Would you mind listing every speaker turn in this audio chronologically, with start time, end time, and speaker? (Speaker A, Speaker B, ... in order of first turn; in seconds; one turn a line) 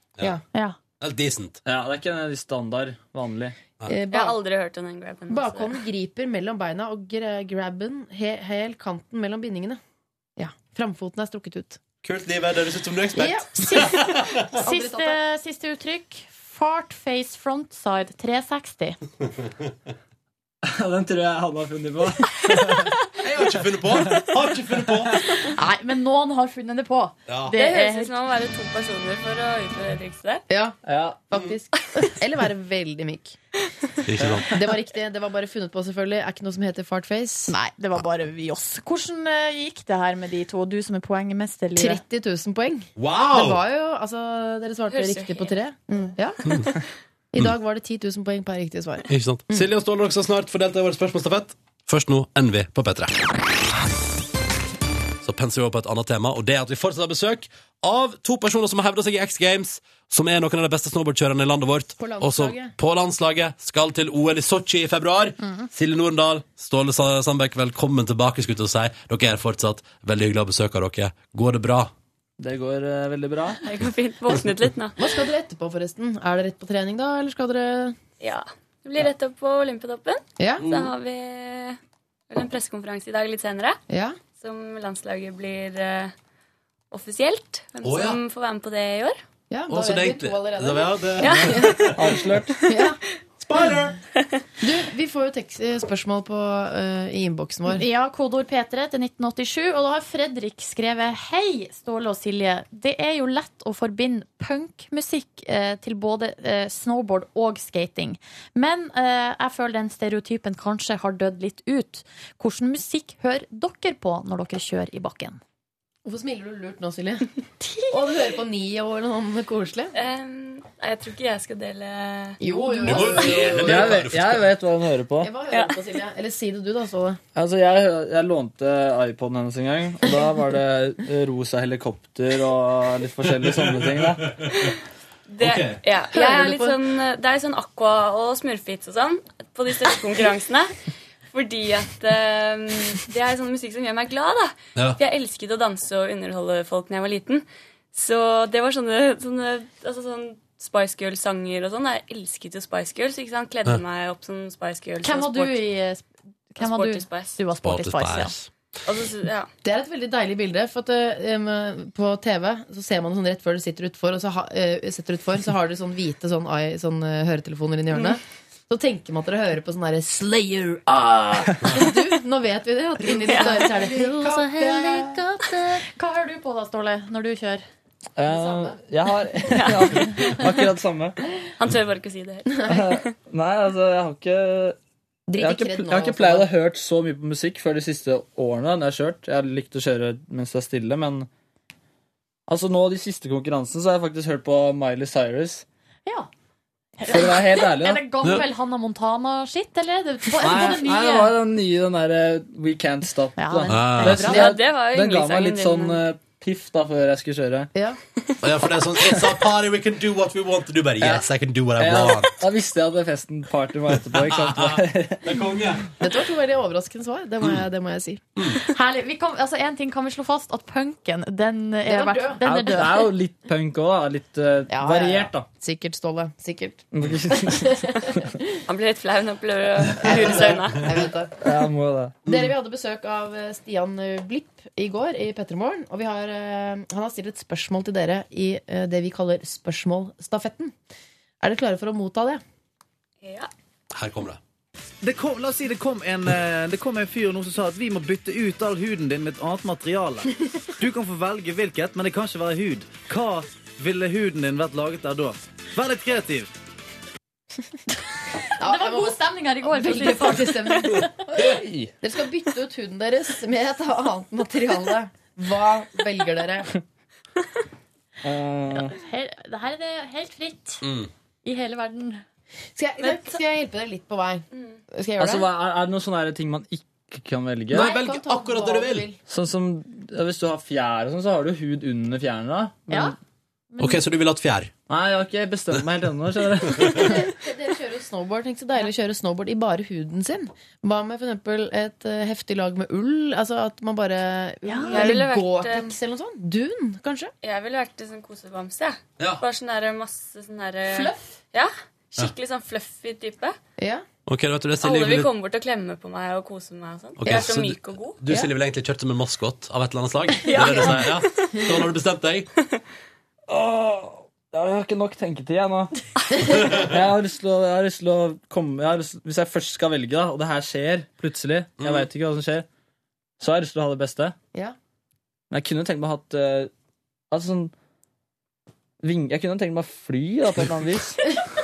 Speaker A: 1.0-1.6
Speaker B: 1.6-3.5
Speaker C: 3.9-4.4
Speaker D: 4.1-5.8
Speaker C: 5.3-9.8
Speaker C: 10.4-11.8
Speaker A: 12.0-14.4
Speaker C: 13.2-14.0
Speaker E: 13.6-14.0
Speaker C: 14.5-15.2
Speaker E: 14.6-19.0
Speaker B: 20.6-22.9
Speaker A: 23.1-25.2
Speaker E: 25.5-28.1
Speaker A: 27.3-27.6
Speaker D: 27.5-30.4
Speaker C: 30.5-33.4
Speaker B: 30.8-31.3
Speaker A: 34.0-34.5
Speaker B: 34.2-34.5
Speaker C: 34.5-37.5
Speaker E: 37.5-42.0
Speaker C: 41.8-46.5
Speaker A: 43.0-43.6
Speaker D: 44.9-45.5
Speaker E: 45.9-46.1
Speaker C: 47.3-49.6
Speaker A: 49.1-53.3
Speaker A: 55.2-71.9
Speaker C: 62.0-62.7
Speaker B: 72.4-73.6
Speaker D: 73.6-75.1
Speaker C: 75.0-78.0
Speaker D: 78.2-81.8
Speaker C: 80.4-80.7
Speaker A: 80.6-80.9
Speaker D: 82.3-83.8
Speaker C: 83.9-84.2
Speaker D: 84.3-86.1
Speaker D: 86.9-89.2
Speaker A: 87.8-88.2
Speaker C: 89.5-91.9
Speaker A: 89.7-92.0
Speaker D: 91.2-92.8
Speaker B: 92.0-92.6
Speaker C: 92.7-93.0
Speaker A: 93.4-94.0
Speaker C: 94.6-97.8
Speaker E: 97.7-115.4
Speaker C: 116.0-117.3
Speaker E: 117.6-118.0
Speaker C: 117.9-119.9
Speaker D: 119.9-122.4
Speaker C: 122.4-124.0
Speaker E: 122.5-123.1
Speaker A: 122.8-124.5
Speaker B: 123.6-125.3
Speaker C: 125.2-127.2
Speaker D: 125.5-125.8
Speaker B: 127.3-134.3
Speaker D: 134.5-134.8
Speaker D: 135.3-140.7
Speaker A: 135.4-135.8
Speaker C: 136.1-136.8
Speaker D: 141.3-155.6
Speaker E: 155.0-158.3
Speaker D: 156.6-157.4
Speaker A: 157.6-158.5
Speaker D: 158.8-159.5
Speaker C: 159.6-175.2
Speaker D: 173.2-173.7
Speaker E: 173.2-177.6
Speaker B: 178.2-181.2
Speaker C: 178.2-178.8
Speaker D: 179.5-180.6
Speaker D: 181.6-183.1
Speaker C: 182.6-182.9
Speaker B: 182.7-184.8
Speaker C: 185.3-186.5
Speaker B: 185.4-191.3
Speaker B: 192.5-195.6
Speaker E: 197.0-201.3
Speaker B: 197.1-198.1
Speaker B: 200.4-207.7
Speaker E: 203.4-204.5
Speaker A: 203.7-204.4
Speaker D: 204.1-206.0
Speaker A: 208.4-212.4
Speaker B: 211.0-215.2
Speaker A: 214.1-215.9
Speaker C: 216.0-218.2
Speaker E: 218.7-223.1
Speaker C: 221.8-222.4
Speaker B: 222.4-225.4
Speaker C: 224.7-228.2
Speaker B: 226.9-227.8
Speaker D: 228.7-230.9
Speaker C: 230.0-231.3
Speaker B: 231.4-232.2
Speaker C: 232.2-240.7
Speaker A: 232.2-232.5
Speaker C: 241.4-242.4
Speaker D: 243.2-243.5
Speaker A: 243.9-244.4
Speaker F: 245.0-256.5
Speaker E: 258.6-261.1
Speaker C: 258.6-261.2
Speaker B: 261.4-261.9
Speaker C: 262.0-266.7
Speaker B: 268.2-268.9
Speaker E: 268.7-270.8
Speaker A: 270.8-271.1
Speaker E: 271.4-272.2
Speaker C: 272.8-275.5
Speaker E: 273.0-273.3
Speaker B: 275.2-277.9
Speaker A: 277.7-279.1
Speaker C: 277.7-279.2
Speaker B: 279.3-283.1
Speaker E: 282.9-283.1
Speaker E: 283.7-284.0
Speaker A: 283.8-284.7
Speaker B: 284.9-287.2
Speaker C: 287.0-297.3
Speaker E: 294.6-295.1
Speaker D: 294.9-295.9
Speaker D: 297.4-303.6
Speaker C: 303.8-304.0
Speaker A: 304.2-305.3
Speaker D: 304.8-308.2
Speaker A: 307.2-312.5
Speaker D: 310.4-311.7
Speaker B: 313.5-315.9
Speaker B: 316.5-322.6
Speaker A: 321.8-322.1
Speaker B: 323.4-324.4
Speaker B: 325.5-326.7
Speaker B: 327.3-327.7
Speaker B: 329.0-331.2